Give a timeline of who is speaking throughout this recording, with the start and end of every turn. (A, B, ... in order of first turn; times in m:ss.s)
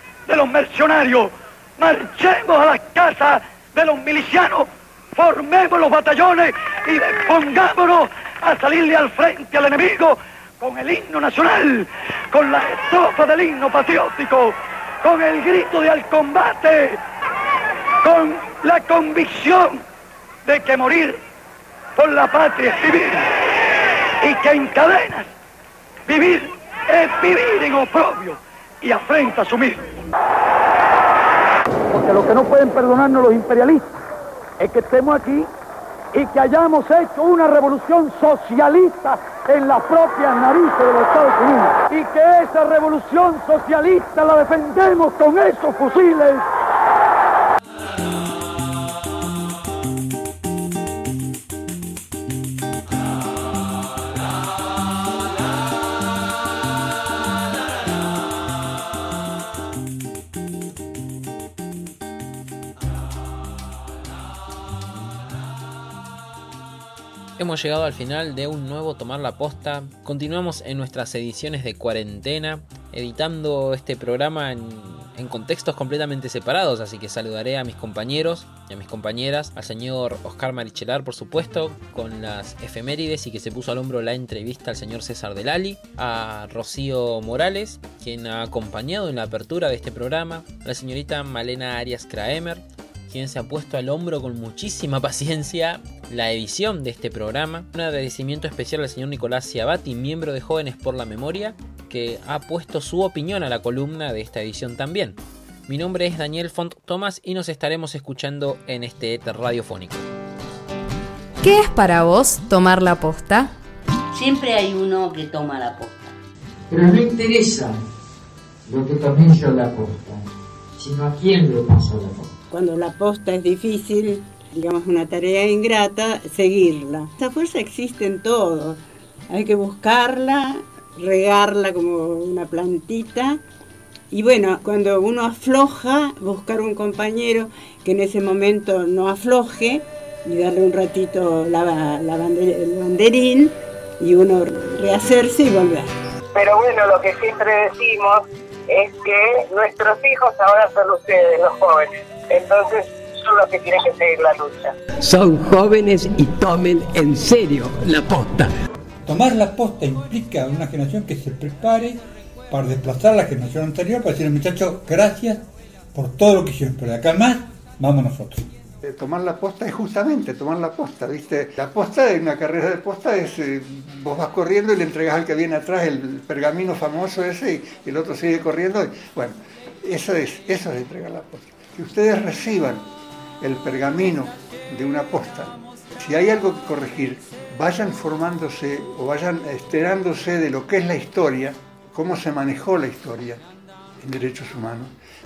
0:00.3-0:17.0 A
0:18.0-0:19.8 A
0:20.4-0:21.2 A
0:22.0-0:23.3 A
0:24.2-0:25.3 A
0:26.1-0:29.8 A
0:31.9-0:33.9 A
0:34.6-0:35.5 A
0:36.1-0:46.5 A
1:07.4-1:50.1 B
1:51.4-1:53.5 C
1:54.1-1:56.1 D
1:56.7-1:57.8 E
1:58.7-2:00.3 E
2:00.8-2:02.3 E
2:02.5-2:13.4 F
2:14.1-2:25.9 F
2:26.3-2:34.7 G
2:35.0-2:38.5 H
2:39.0-2:48.5 I
2:48.8-3:02.9 J
3:03.4-3:13.4 J
3:14.0-3:15.0 J